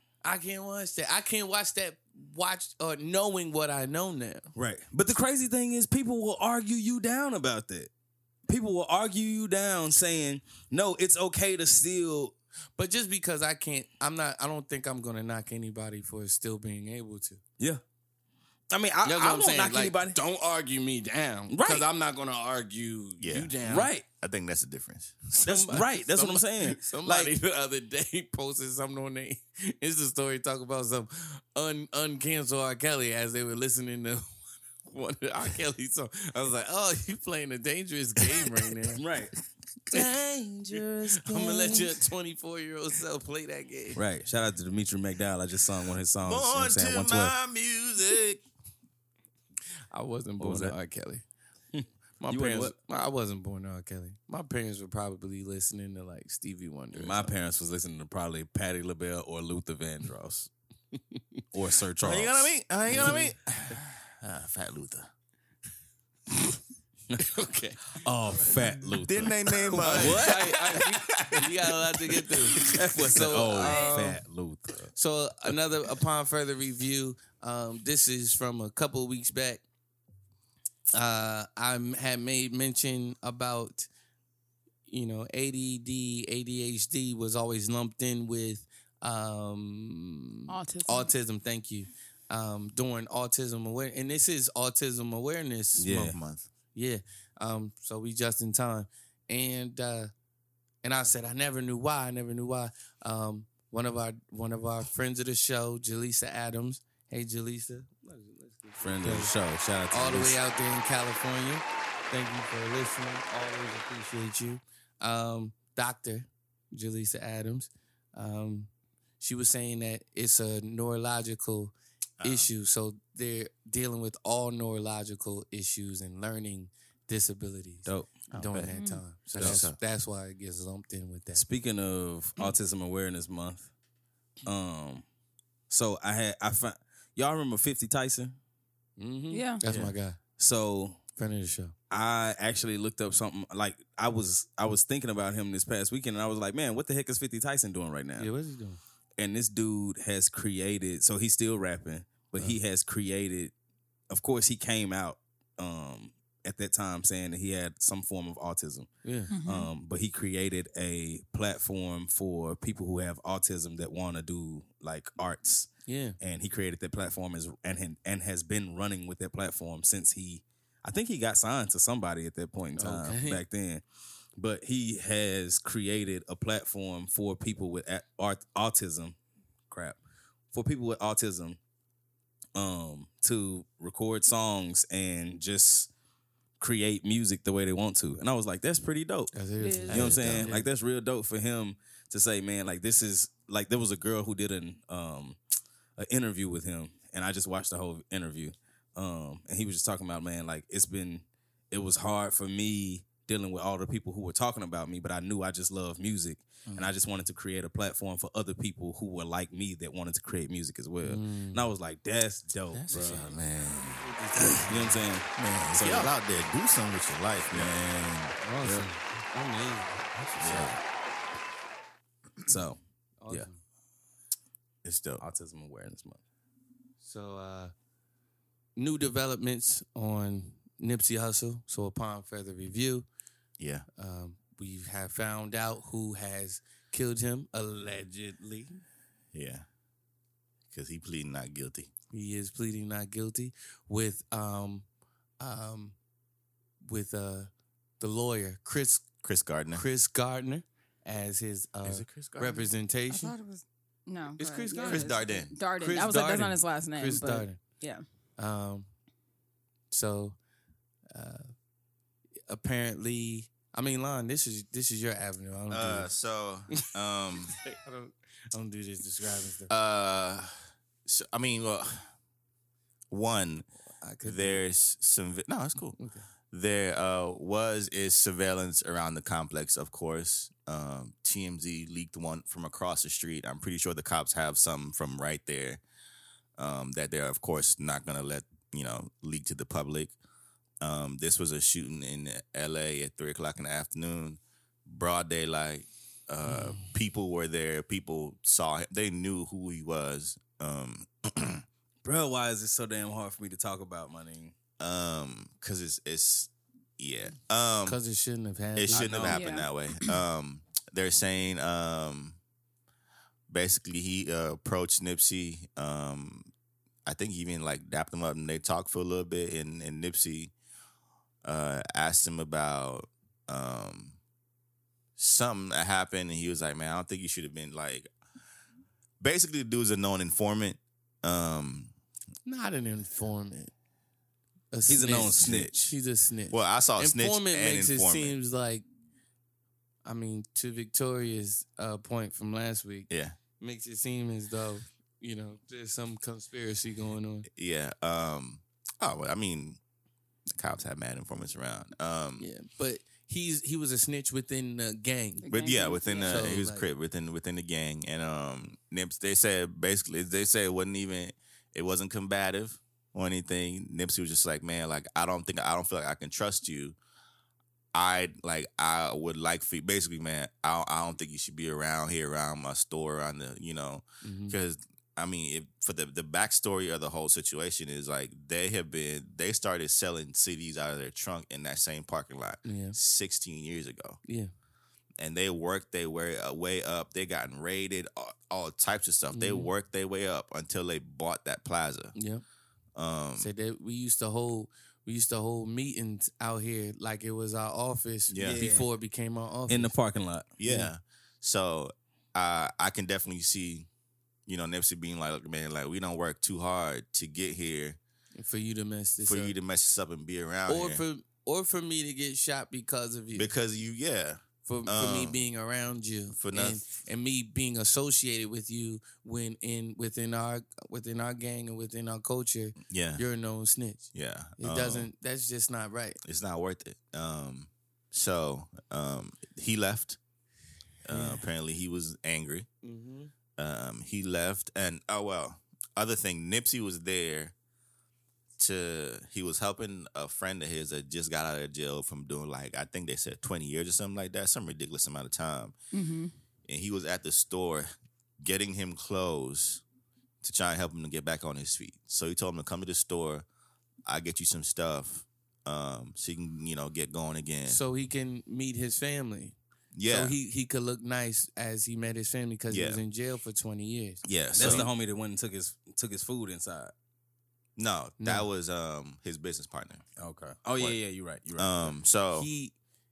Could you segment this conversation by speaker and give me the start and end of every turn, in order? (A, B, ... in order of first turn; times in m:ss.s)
0:00.2-0:04.5 A
0:04.5-0:07.9 B
0:08.5-0:12.3 B
0:12.8-0:17.4 A
0:18.7-0:20.2 B
0:19.0-0:23.9 A
0:21.5-0:21.8 B
0:23.2-0:23.5 C
0:23.6-0:24.0 B
0:24.2-0:25.5 C
0:25.4-0:27.3 B
0:25.5-0:34.3 A
0:34.8-0:39.0 A
0:38.9-0:39.3 B
0:39.9-0:42.0 B
0:40.7-0:44.0 A
0:44.0-0:47.3 B
0:46.2-0:48.4 C
0:49.9-0:51.2 A
0:50.4-0:50.7 B
0:51.7-0:52.7 B
0:52.2-0:57.3 A
0:56.9-1:00.5 B
1:01.5-1:03.2 B
1:02.0-1:05.1 C
1:02.9-1:03.3 A
1:07.2-1:08.0 A
1:08.0-1:10.7 B
1:09.0-1:11.6 C
1:09.7-1:14.2 A
1:12.1-1:12.9 C
1:12.6-1:14.9 B
1:13.6-1:14.0 D
1:14.9-1:19.6 A
1:20.9-1:23.9 A
1:24.9-1:36.2 A
1:30.5-1:31.1 D
1:35.8-1:36.2 B
1:36.0-1:36.5 C
1:36.7-1:40.1 A
1:40.8-1:49.3 A
1:48.8-1:50.4 B
1:49.9-2:11.4 A
2:02.2-2:02.5 C
2:07.8-2:08.2 B
2:08.3-2:08.8 C
2:08.8-2:09.0 D
2:09.3-2:09.8 C
2:09.4-2:09.6 B
2:11.3-2:13.7 B
2:14.4-2:15.0 B
2:15.7-2:18.4 B
2:19.0-2:20.2 A
2:19.3-2:19.6 D
2:19.6-2:19.9 C
2:20.4-2:21.0 B
2:21.2-2:21.7 A
2:21.9-2:28.3 B
2:28.2-2:28.8 A
2:29.2-2:33.5 B
2:34.1-2:38.9 B
2:39.0-2:39.3 A
2:39.3-2:39.7 D
2:39.4-2:53.8 B
2:45.8-2:46.2 A
2:52.7-2:53.4 A
2:54.4-2:59.2 B
2:59.7-3:00.0 B
3:00.5-3:01.6 B
3:02.5-3:05.9 B
3:06.6-3:09.3 B
3:09.3-3:10.6 A
3:09.6-3:10.1 D
3:09.9-3:15.4 B
3:16.0-3:33.2 B
3:31.0-3:31.6 A
3:32.7-3:34.4 C
3:32.9-3:33.3 A
3:34.0-3:35.0 A
3:34.7-3:36.1 B
3:35.4-3:38.4 C
3:38.4-3:40.4 A
3:40.3-3:40.8 C
3:40.4-3:40.8 B
3:42.4-3:43.5 B
3:43.2-3:43.6 A
3:44.8-3:45.2 C
3:45.2-3:46.2 B
3:47.0-3:47.7 A
3:48.8-3:53.1 A
3:53.6-3:53.8 C
3:54.0-3:58.8 A
3:59.3-3:59.6 C
4:00.7-4:01.9 C
4:02.1-4:04.8 A
4:05.4-4:06.0 A
4:06.8-4:09.2 A
4:09.2-4:09.8 C
4:09.7-4:13.3 A
4:11.8-4:12.7 C
4:13.1-4:18.0 D
4:14.4-4:17.6 A
4:14.8-4:15.5 C
4:18.4-4:18.9 A
4:19.9-4:20.4 A
4:21.1-4:21.5 A
4:22.5-4:26.1 A
4:25.7-4:27.6 C
4:27.6-4:29.7 A
4:29.7-4:32.1 C
4:33.1-4:33.6 C
4:34.0-4:34.6 A
4:34.2-4:36.0 C
4:36.0-4:36.2 A
4:36.5-4:45.8 C
4:46.6-4:50.1 C
4:50.8-5:01.6 C
4:56.5-4:56.9 A
5:02.0-5:04.5 B
5:04.8-5:08.0 C
5:07.8-5:09.4 A
5:08.7-5:12.4 C
5:08.9-5:09.4 B
5:09.3-5:09.7 D
5:13.5-5:16.5 C
5:17.0-5:20.5 C
5:21.4-5:24.2 C
5:25.2-5:28.1 C
5:29.2-5:31.9 C
5:32.4-5:33.7 A
5:34.7-5:38.8 A
5:34.9-5:35.9 B
5:36.5-5:38.4 C
5:40.0-5:47.5 A
5:43.1-5:43.4 C
5:47.5-5:49.8 C
5:50.5-5:52.5 C
5:52.4-5:55.5 A
5:55.4-5:56.5 D
5:55.5-6:07.0 C
5:56.2-5:56.9 A
6:07.9-6:24.2 C
6:14.2-6:14.6 A
6:22.6-6:23.0 A
6:24.2-6:24.5 A
6:25.2-6:32.1 C
6:29.3-6:29.7 A
6:32.1-6:32.4 A
6:33.0-6:33.5 C
6:33.4-6:39.9 A
6:38.3-6:38.6 C
6:38.4-6:38.9 B
6:39.7-6:40.5 B
6:40.6-6:43.9 C
6:40.6-6:40.9 A
6:44.5-6:48.0 C
6:48.4-6:49.5 A
6:49.2-6:51.0 C
6:50.7-6:53.5 A
6:53.4-6:55.4 C
6:54.6-7:06.2 A
6:56.3-6:56.9 C
7:02.8-7:03.2 C
7:04.1-7:05.1 C
7:06.2-7:10.2 C
7:11.0-7:12.7 C
7:11.1-7:11.4 A
7:12.8-7:13.3 A
7:13.6-7:17.5 C
7:18.6-7:25.7 C
7:25.9-7:26.3 D
7:26.6-7:29.8 C
7:30.4-7:33.4 C
7:34.0-7:37.8 C
7:37.7-7:44.9 A
7:39.9-7:40.3 C
7:42.7-7:43.0 C
7:44.2-7:44.9 C
7:44.5-7:46.9 B
7:47.8-7:50.0 C
7:48.2-7:48.4 A
7:50.2-7:51.9 B
7:51.6-7:52.5 C
7:52.3-7:52.7 A